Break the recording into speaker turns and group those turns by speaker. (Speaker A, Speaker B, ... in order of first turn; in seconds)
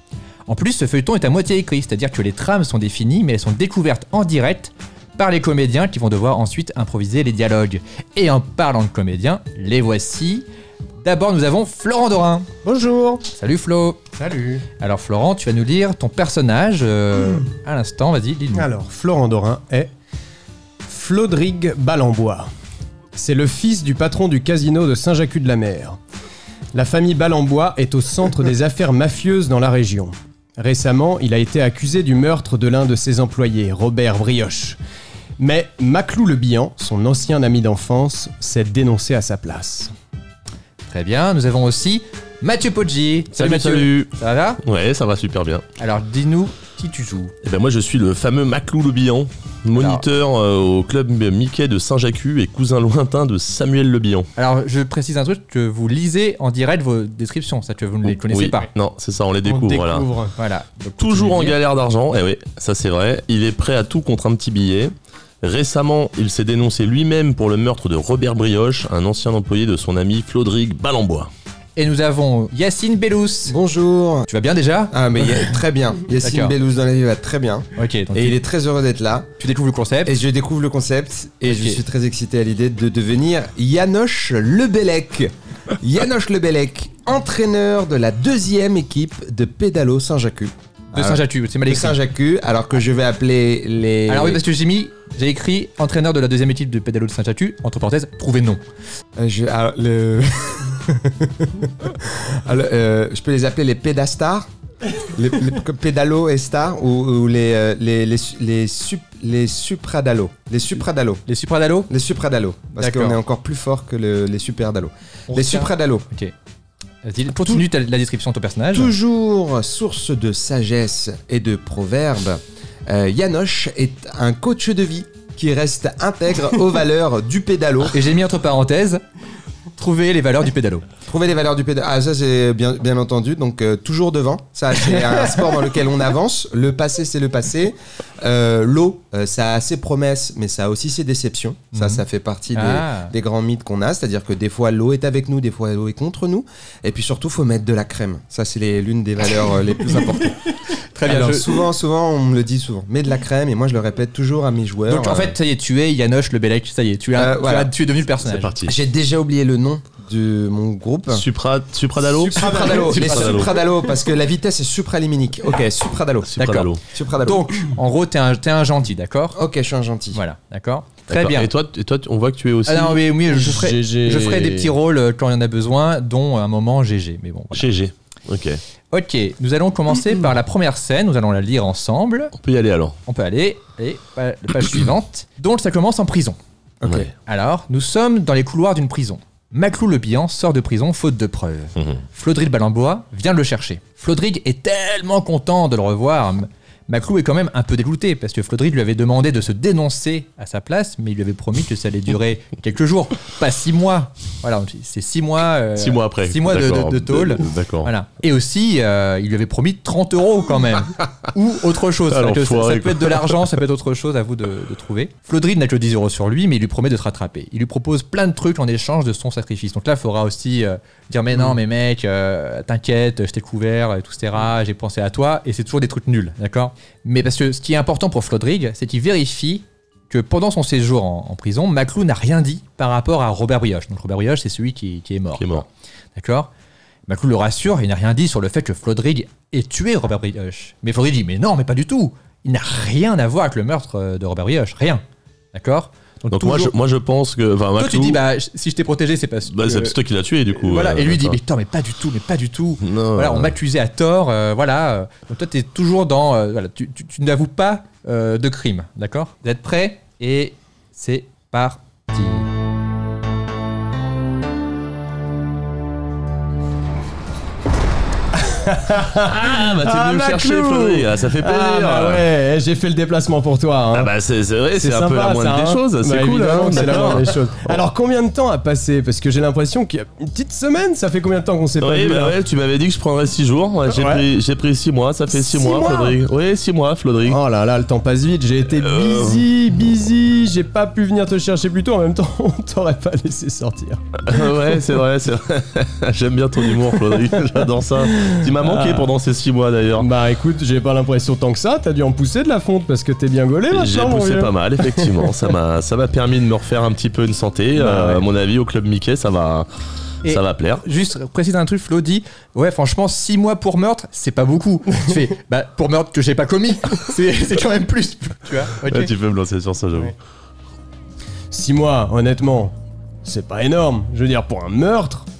Speaker A: 0.5-10.4, 11.0-12.5, 13.3-14.0, 14.8-18.7, 40.8-44.6, 45.8-47.3, 49.7-50.0, 54.4-58.7, 60.4-61.6, 71.8-73.5, 74.3-75.0, 76.2-76.5, 77.8-78.4, 79.4-80.2, 81.4-81.8, 90.9-92.0, 94.1-98.6, 111.3-111.9, 112.8-113.2, 115.3-116.3, 117.0-118.9, 127.9-129.0, 129.8-130.8, 141.7-142.0, 142.5-143.1, 150.9-151.5, 154.9-158.6, 162.9-163.4, 166.4-166.7, 167.2-169.4, 170.1-171.5, 172.7-177.7, 178.9-182.3, 183.1-186.4, 187.1-236.5, 237.1-245.0, 245.5-246.7, 247.8-249.9, 250.5-262.5, 310.2-319.1
Speaker B: 12.6-13.2, 14.1-14.7, 18.5-19.9, 20.9-22.5, 23.1-26.0, 26.7-34.8, 35.4-39.9, 59.4-60.3, 162.2-163.2, 173.3-174.7, 268.4-274.1, 274.7-282.4, 283.9-284.2, 285.3-286.2, 287.2-294.8, 296.7-297.4, 298.0-299.1, 299.9-305.3, 307.8-308.2, 321.5-322.7, 323.2-325.3
Speaker C: 43.3-44.1, 44.6-45.6, 47.4-54.3, 58.0-60.1, 61.0-71.3, 158.2-158.7, 161.1-163.6, 166.3-166.8, 171.1-173.0, 177.5-178.6, 182.3-182.9, 205.8-207.9, 212.1-213.4, 235.4-235.6, 246.3-248.2, 249.5-251.4, 252.8-253.5, 269.2-272.3, 273.9-277.8, 281.8-287.4, 288.7-289.4, 294.2-300.1, 303.7-309.7, 310.2-310.8, 318.9-320.1
Speaker D: 73.5-74.3, 74.9-79.3, 80.0-94.4, 99.2-111.2, 111.9-116.0, 118.7-128.0, 131.1-155.3, 157.2-157.7, 158.6-161.2, 162.3-167.6, 169.3-170.2, 186.8-187.1